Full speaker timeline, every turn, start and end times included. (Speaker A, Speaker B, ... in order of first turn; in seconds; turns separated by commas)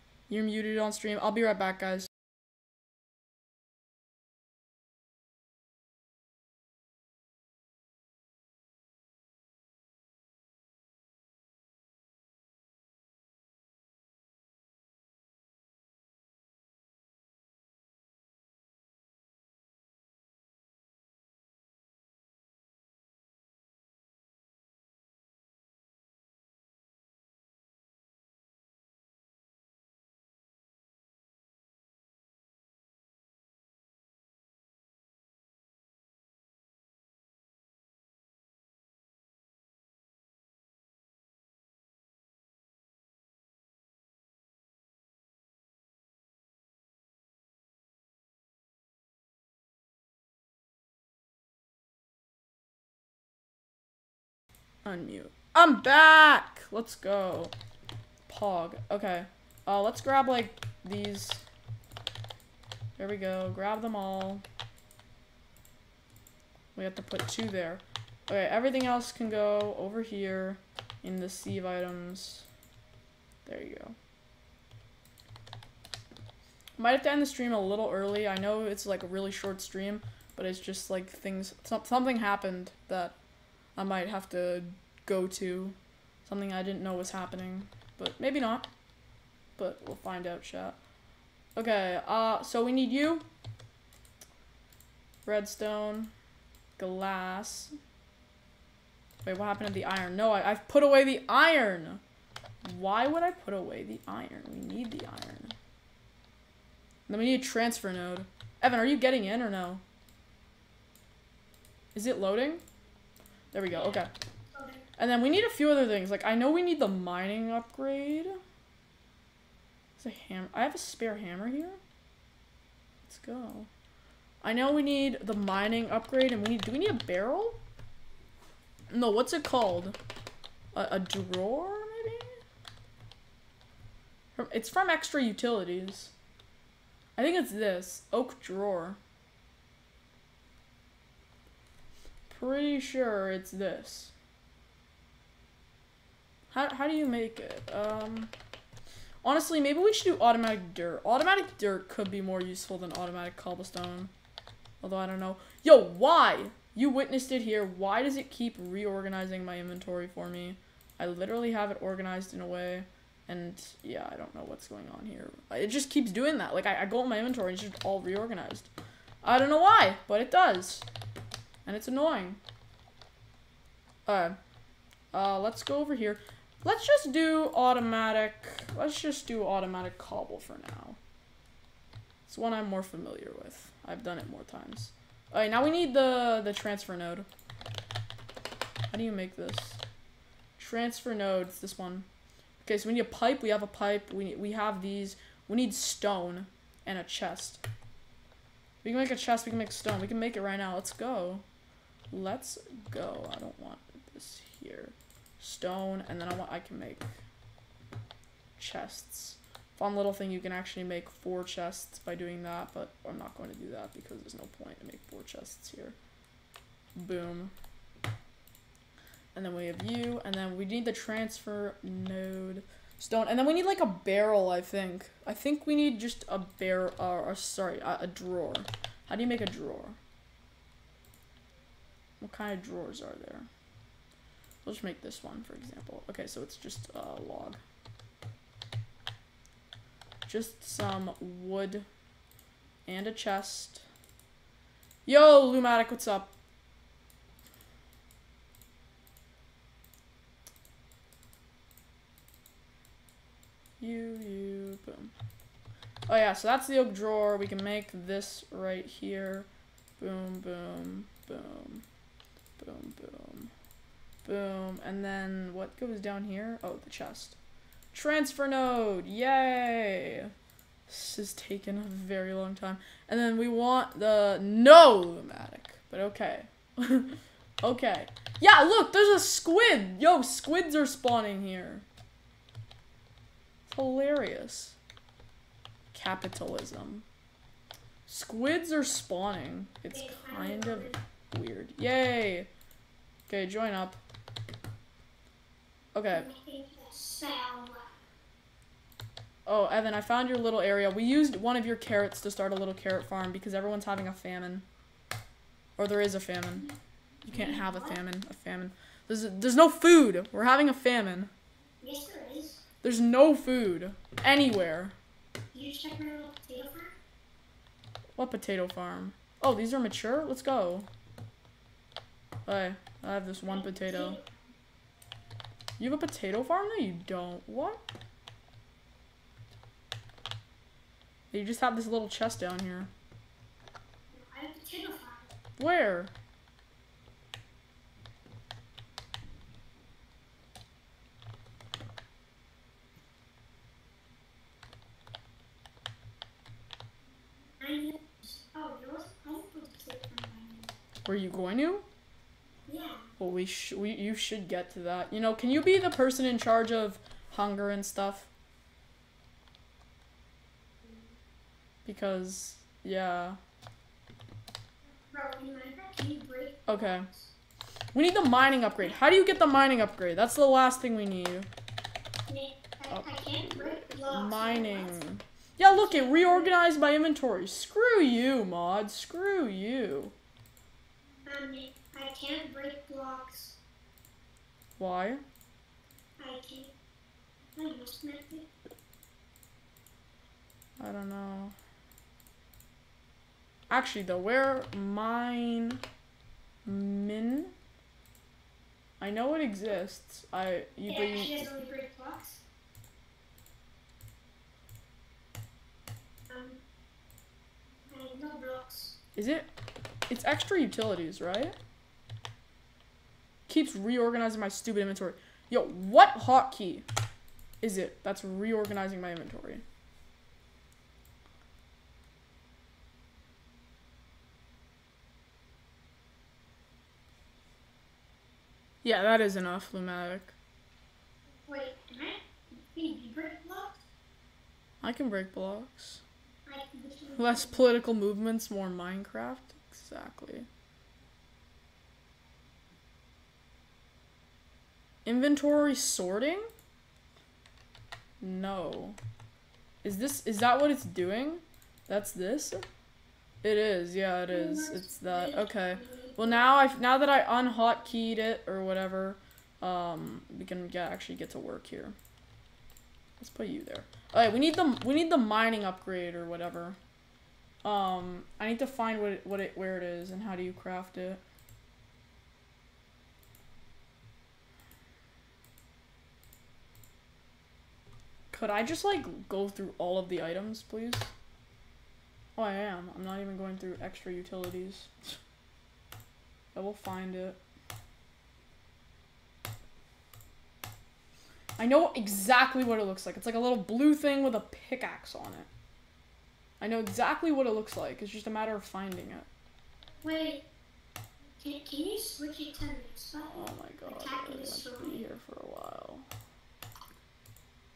Speaker A: 0.3-2.1, Speaker A: 54.9-57.5, Speaker A: 58.3-61.4, Speaker A: 63.0-64.4, Speaker A: 66.8-72.5, Speaker A: 73.5-74.0, Speaker A: 76.8-83.2, Speaker A: 83.8-88.7, Speaker A: 89.6-90.8, Speaker A: 91.6-93.3, Speaker A: 95.2-96.1, Speaker A: 96.8-97.7, Speaker A: 99.2-102.0, Speaker A: 102.6-105.5, Speaker A: 107.1-109.8, Speaker A: 112.0-112.6, Speaker A: 113.5-114.1, Speaker B: 113.7-114.8, Speaker A: 115.0-118.4, Speaker A: 120.0-121.8, Speaker A: 123.1-123.7, Speaker A: 124.4-127.6, Speaker A: 128.9-130.0, Speaker A: 130.7-132.4, Speaker A: 134.4-136.1, Speaker A: 137.2-139.0, Speaker A: 142.3-144.1, Speaker A: 146.5-148.3, Speaker A: 149.2-154.1, Speaker A: 154.8-168.7, Speaker A: 169.2-170.9, Speaker A: 171.7-172.4, Speaker A: 174.1-174.4, Speaker A: 175.1-181.0, Speaker A: 182.3-187.3, Speaker A: 188.9-189.8, Speaker A: 190.6-192.1, Speaker A: 192.6-197.6, Speaker A: 198.8-201.4, Speaker A: 202.1-207.1, Speaker A: 208.6-216.0, Speaker A: 216.9-217.5, Speaker A: 219.3-230.0, Speaker A: 232.2-233.5, Speaker A: 234.7-237.6, Speaker A: 240.3-241.9, Speaker A: 242.9-243.9, Speaker A: 245.1-246.3, Speaker A: 253.8-255.1, Speaker A: 256.1-259.5, Speaker A: 260.0-261.8, Speaker A: 262.6-263.5, Speaker A: 264.2-267.4, Speaker A: 267.9-270.3, Speaker A: 270.9-281.9, Speaker A: 283.7-284.8, Speaker A: 285.9-287.1, Speaker A: 288.1-292.5, Speaker B: 289.9-291.0, Speaker A: 293.3-294.0, Speaker A: 295.9-296.3, Speaker B: 296.1-297.9, Speaker A: 299.5-304.7, Speaker A: 305.8-306.7, Speaker A: 307.2-311.3, Speaker B: 307.3-308.0, Speaker B: 311.8-312.6, Speaker A: 312.8-314.9, Speaker B: 315.5-317.0, Speaker A: 318.2-320.9, Speaker A: 322.5-324.2, Speaker B: 323.4-324.6, Speaker A: 325.8-327.8, Speaker A: 331.3-332.9, Speaker B: 334.1-335.3, Speaker A: 335.6-336.1, Speaker B: 347.6-350.8, Speaker A: 351.0-351.9, Speaker B: 352.7-353.1, Speaker A: 353.2-358.3, Speaker B: 360.8-361.1, Speaker A: 361.9-363.4, Speaker B: 365.1-367.3, Speaker A: 366.7-367.1, Speaker A: 367.9-371.5, Speaker B: 368.6-369.6, Speaker B: 372.3-375.0, Speaker A: 372.9-380.1, Speaker B: 375.7-376.6, Speaker B: 381.2-383.6, Speaker A: 384.8-385.2, Speaker B: 386.2-386.8, Speaker B: 387.6-388.5, Speaker A: 390.8-391.6, Speaker A: 393.7-395.8, Speaker A: 396.6-397.5, Speaker A: 399.0-401.5, Speaker B: 400.9-402.4, Speaker B: 406.3-406.6, Speaker B: 407.9-409.0, Speaker A: 409.1-409.5, Speaker A: 410.1-411.6, Speaker A: 413.5-416.9, Speaker A: 417.6-419.6, Speaker A: 428.8-430.4, Speaker B: 431.5-433.8, Speaker A: 434.8-436.0, Speaker B: 436.5-437.7, Speaker A: 437.2-440.5, Speaker A: 445.1-446.5, Speaker A: 448.2-449.0, Speaker A: 449.8-452.6, Speaker A: 453.4-462.0, Speaker B: 454.3-456.5, Speaker A: 463.2-466.8, Speaker A: 467.6-471.2, Speaker A: 478.3-481.1, Speaker A: 482.4-485.2, Speaker A: 486.5-487.4, Speaker A: 491.6-495.5, Speaker A: 496.6-499.3, Speaker B: 500.0-500.5, Speaker B: 501.4-505.1, Speaker A: 503.3-506.1